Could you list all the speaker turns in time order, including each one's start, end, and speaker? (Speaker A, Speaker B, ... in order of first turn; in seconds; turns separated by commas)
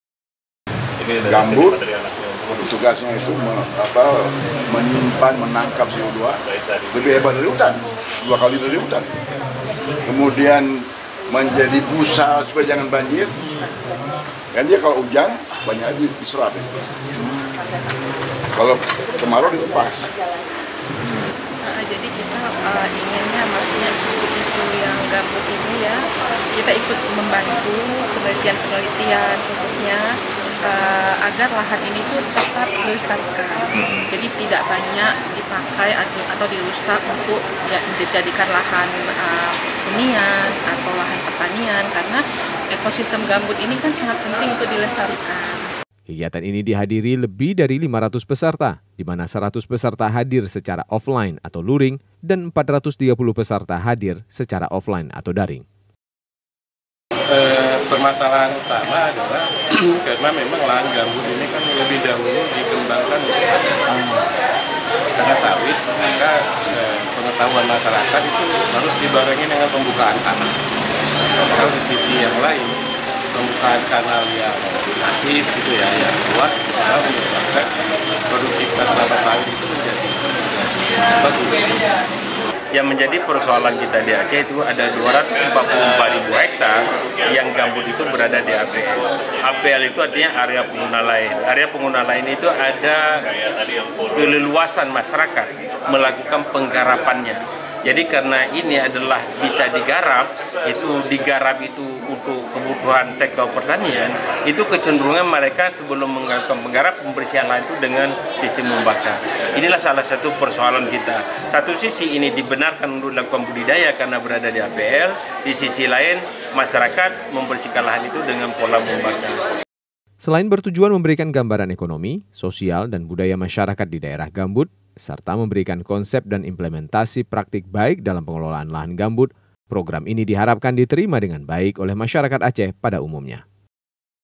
Speaker A: 1.2-1.8, Speaker A: 2.5-6.4, Speaker A: 6.9-9.1, Speaker A: 10.0-13.3, Speaker A: 14.5-17.4, Speaker A: 18.5-20.1, Speaker B: 21.2-26.0, Speaker B: 26.6-30.0, Speaker B: 30.6-42.2, Speaker C: 33.8-34.1, Speaker B: 42.7-45.6, Speaker C: 46.1-55.6, Speaker D: 57.3-63.8, Speaker D: 65.1-70.5, Speaker D: 71.5-72.7, Speaker D: 73.3-77.7, Speaker D: 78.3-81.8, Speaker E: 82.7-93.1, Speaker E: 94.1-119.4, Speaker C: 120.2-133.4